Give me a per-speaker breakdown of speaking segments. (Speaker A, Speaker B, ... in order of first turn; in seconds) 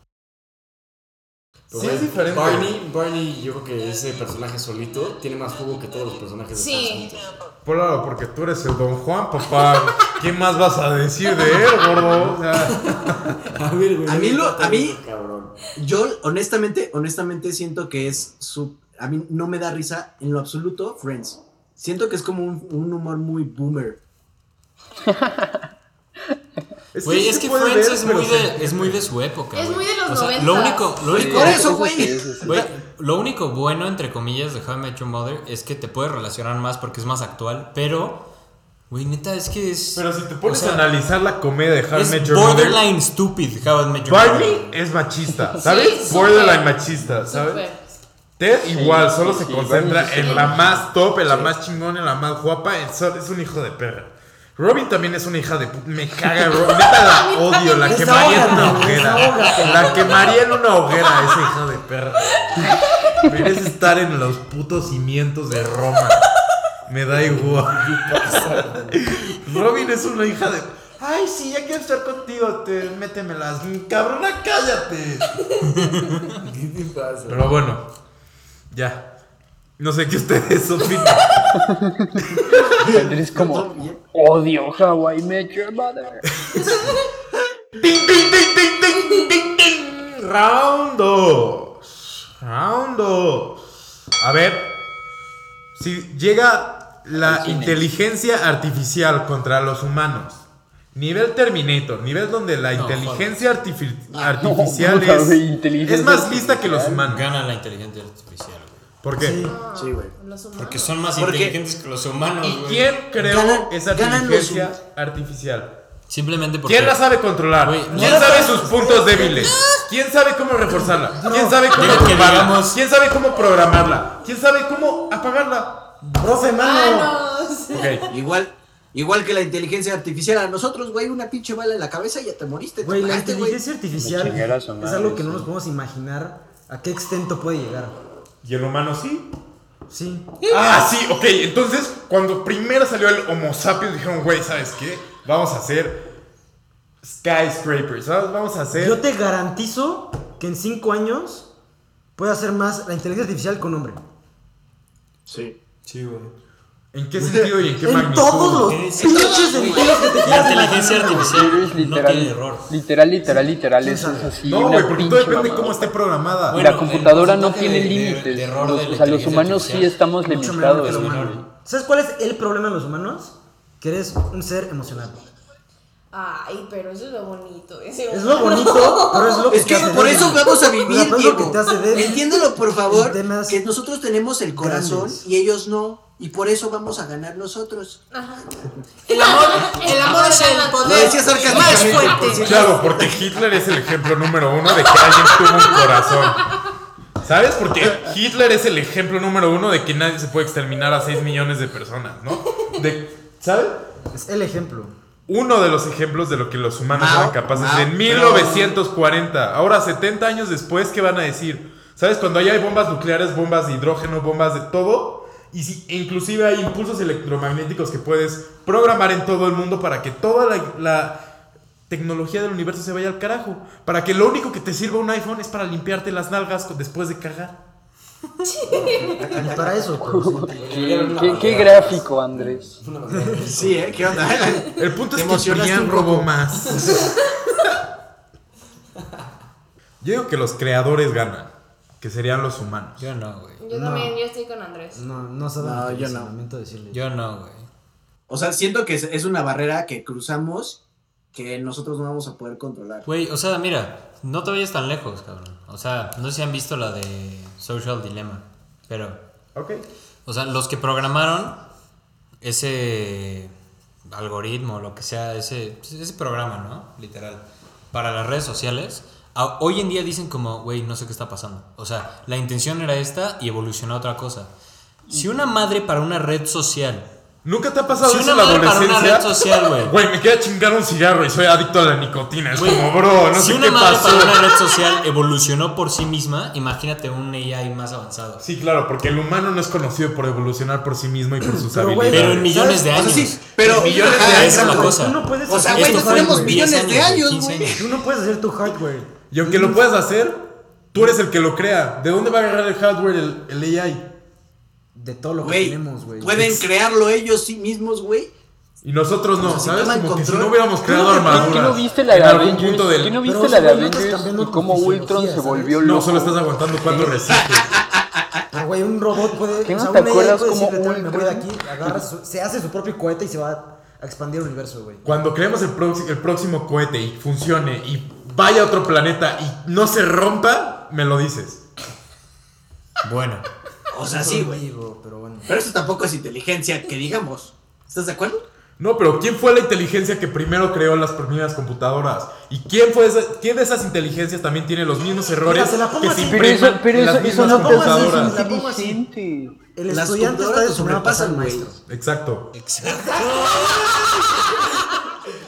Speaker A: 1.7-7.3, 12.0-15.6, 67.1-69.0, 76.4-77.5, 83.0-83.9, 155.9-156.2, 230.5-234.4
Speaker B: 1.7-2.7, 7.6-12.8, 26.9-29.1, 39.9-42.8, 44.0-47.6, 48.4-66.2, 66.9-75.3, 77.3-77.9, 78.7-79.1, 79.8-81.4, 82.3-82.7, 87.8-93.6, 94.2-94.8, 95.7-100.4, 100.9-107.3, 109.0-109.5, 112.4-115.8, 116.6-126.0, 127.7-128.1, 138.4-139.3, 140.5-146.1, 147.0-149.0, 156.9-158.9, 164.4-166.6, 192.4-196.5, 197.2-203.8, 205.3-221.2, 221.9-227.6, 234.7-237.0, 240.0-241.5, 242.0-243.0, 259.5-259.9, 277.4-284.4, 288.4-292.5, 293.7-294.6, 299.3-304.1, 308.8-313.2, 315.8-317.8, 325.0-331.6, 338.8-348.4, 351.9-352.5, 353.1-354.4
Speaker C: 6.5-7.1, 29.5-31.6, 45.5-47.8, 50.1-50.5, 56.5-58.7, 60.1-61.5, 62.2-62.8, 109.4-111.1, 126.6-128.0, 176.1-180.7, 188.1-188.4, 189.1-192.7, 194.7-196.5, 228.4-229.4, 243.6-245.0
Speaker D: 14.1-15.0, 15.8-24.0, 31.1-32.7, 104.1-104.4, 109.7-110.1, 111.2-111.5, 113.2-114.8, 128.1-133.6, 155.3-155.6, 157.2-157.5, 179.5-188.0, 190.8-193.2, 206.9-208.8, 233.5-236.3, 245.6-246.3, 248.3-250.8, 251.3-253.1, 292.9-294.9, 295.5-297.8, 305.4-308.3, 309.4-311.6, 317.3-318.6, 333.9-334.6, 335.5-338.4, 349.9-351.7
Speaker E: 25.1-25.6, 31.1-32.6, 49.6-50.7, 81.6-82.2, 82.8-86.3, 97.2-97.8, 104.4-107.0, 133.9-135.5, 161.1-165.8, 166.5-171.4, 230.0-232.8, 310.9-316.5, 319.6-321.9, 346.2-349.6
Speaker F: 27.0-31.7, 32.4-38.3, 38.9-40.9, 41.9-44.8, 48.7-50.8, 58.6-59.5, 75.7-76.2, 102.7-103.4, 107.0-108.8, 110.5-112.9, 116.1-117.0, 117.6-118.6, 121.7-122.8, 158.6-162.7, 166.5-171.4, 189.1-192.6, 243.0-243.6, 246.9-247.7, 253.1-259.2, 260.2-261.6, 262.4-263.5, 264.1-274.5, 275.1-277.1, 278.0-279.9, 282.5-288.4, 292.1-297.9, 333.0-333.4, 352.5-354.9
Speaker G: 57.8-60.3, 109.2-109.5, 117.9-119.5, 121.1-121.8, 126.0-127.2, 132.8-138.0, 139.9-140.3, 148.7-151.5, 152.2-154.0, 157.8-161.5, 163.8-164.3, 170.2-175.2, 178.1-183.6, 184.5-185.2, 204.1-204.9, 229.3-230.6, 233.1-233.4, 243.7-244.1, 244.9-247.0, 291.4-296.8, 297.7-299.8, 304.9-306.6, 310.9-311.4, 313.2-315.9, 316.9-317.1, 318.5-325.1, 334.0-335.6, 345.4-349.0, 349.8-351.8